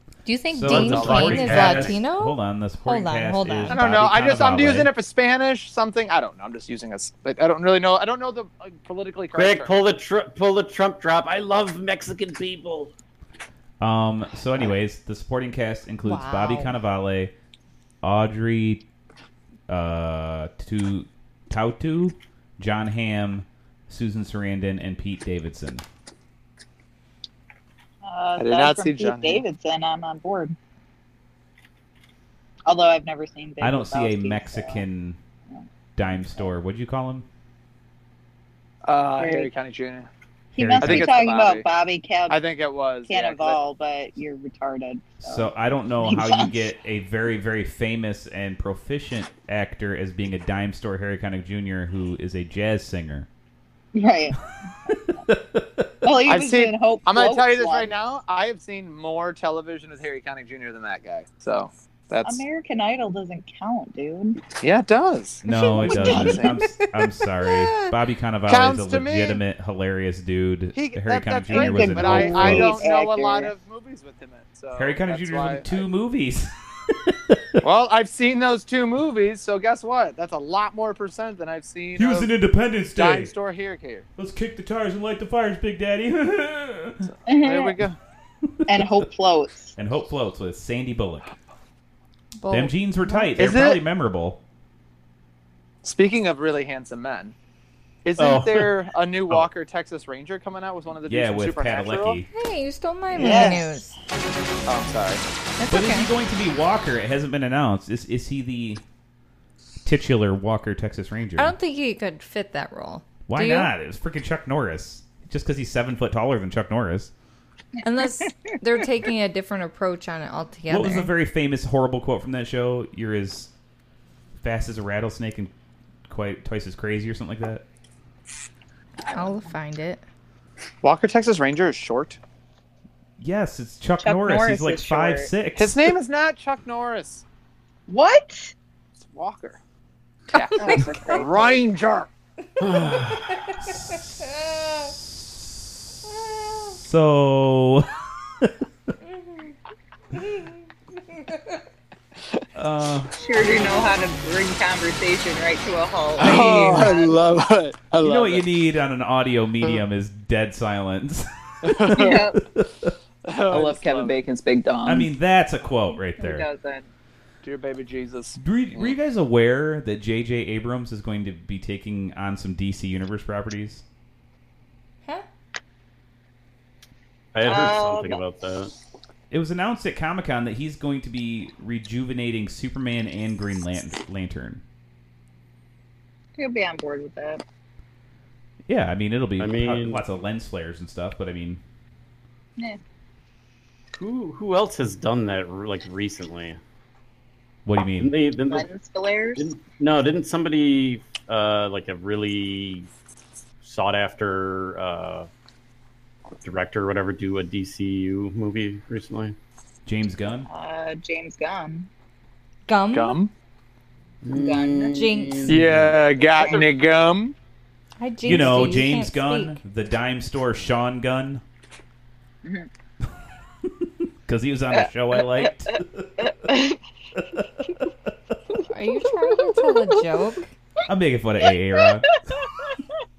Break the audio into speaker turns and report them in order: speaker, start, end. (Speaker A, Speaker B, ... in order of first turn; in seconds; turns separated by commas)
Speaker A: 0.2-3.8, Speaker B: 0.5-4.9, Speaker C: 0.7-2.0, Speaker D: 1.0-1.2, Speaker D: 3.7-9.8, Speaker C: 9.3-12.9, Speaker B: 13.8-17.3, Speaker A: 16.0-16.7, Speaker B: 18.0-18.9, Speaker B: 19.7-25.8, Speaker E: 28.0-30.6, Speaker D: 28.4-29.4, Speaker E: 32.6-34.8, Speaker B: 33.6-35.2, Speaker B: 36.0-37.2, Speaker D: 38.8-40.1, Speaker E: 39.2-39.5, Speaker E: 40.5-42.4, Speaker B: 40.6-41.1, Speaker D: 40.8-41.6, Speaker D: 42.3-43.6, Speaker E: 43.1-46.6, Speaker B: 45.2-53.3, Speaker E: 53.9-54.4, Speaker E: 54.9-55.2, Speaker B: 55.3-55.9, Speaker E: 56.0-57.9, Speaker D: 56.2-62.4, Speaker E: 62.2-64.5, Speaker D: 64.6-66.6, Speaker B: 65.4-72.7, Speaker A: 65.5-66.9, Speaker A: 67.4-67.9, Speaker D: 68.5-69.4, Speaker D: 70.7-75.8, Speaker E: 71.5-73.5, Speaker B: 74.7-77.6, Speaker D: 77.6-82.3, Speaker B: 82.0-83.3, Speaker D: 82.9-84.0, Speaker B: 84.2-87.1, Speaker E: 87.3-87.8, Speaker D: 87.3-88.0, Speaker E: 88.7-89.7, Speaker B: 89.8-91.3, Speaker A: 92.4-93.3, Speaker B: 92.5-94.4, Speaker D: 93.4-93.8, Speaker D: 95.8-97.3, Speaker D: 98.0-102.2, Speaker C: 98.2-98.7, Speaker B: 101.1-102.3, Speaker A: 102.3-104.0, Speaker E: 103.1-103.8, Speaker D: 104.7-105.2, Speaker A: 105.6-106.1, Speaker B: 105.7-108.8, Speaker B: 109.8-111.5, Speaker A: 111.4-113.7, Speaker B: 113.3-117.1, Speaker A: 117.8-121.1, Speaker B: 120.7-123.5, Speaker B: 124.4-125.5, Speaker B: 126.1-127.6, Speaker A: 129.1-130.0, Speaker D: 130.8-132.2, Speaker B: 133.2-135.9, Speaker E: 134.0-135.3, Speaker D: 135.6-137.2, Speaker E: 137.9-138.5, Speaker D: 139.0-139.6, Speaker D: 140.3-142.1, Speaker A: 140.3-141.2, Speaker E: 140.6-141.6, Speaker C: 142.6-143.4, Speaker A: 143.4-143.7, Speaker A: 144.2-144.8, Speaker B: 145.0-145.6, Speaker B: 146.8-147.9, Speaker A: 149.1-149.5, Speaker A: 150.1-151.6, Speaker B: 152.5-153.1, Speaker E: 153.1-157.2, Speaker B: 156.2-156.9, Speaker D: 156.2-158.6, Speaker B: 158.0-162.9, Speaker D: 161.6-162.2, Speaker E: 161.9-162.4, Speaker D: 163.2-164.2, Speaker E: 163.5-165.1, Speaker B: 164.8-166.5, Speaker E: 166.2-166.9, Speaker D: 167.4-168.9, Speaker B: 168.4-173.8, Speaker C: 177.3-178.7, Speaker E: 177.4-178.2, Speaker B: 179.3-184.6, Speaker E: 186.3-187.4, Speaker B: 188.7-191.6, Speaker C: 189.4-190.0, Speaker C: 193.9-196.6, Speaker B: 197.7-198.1, Speaker C: 198.0-198.7, Speaker E: 198.5-199.5, Speaker C: 199.4-202.9, Speaker C: 203.6-205.3, Speaker C: 206.4-209.3, Speaker B: 209.8-210.5, Speaker E: 210.5-211.9, Speaker A: 212.7-213.2, Speaker D: 212.9-213.3, Speaker C: 214.2-215.6, Speaker E: 214.3-215.5, Speaker A: 214.9-215.4, Speaker D: 215.5-217.3, Speaker B: 215.6-216.0, Speaker E: 216.4-216.7, Speaker A: 218.0-219.6, Speaker B: 218.2-221.4, Speaker C: 218.3-218.6, Speaker E: 222.4-222.7, Speaker B: 224.2-226.1, Speaker E: 224.7-226.8, Speaker A: 228.7-230.5, Speaker B: 230.9-232.1, Speaker E: 231.8-232.7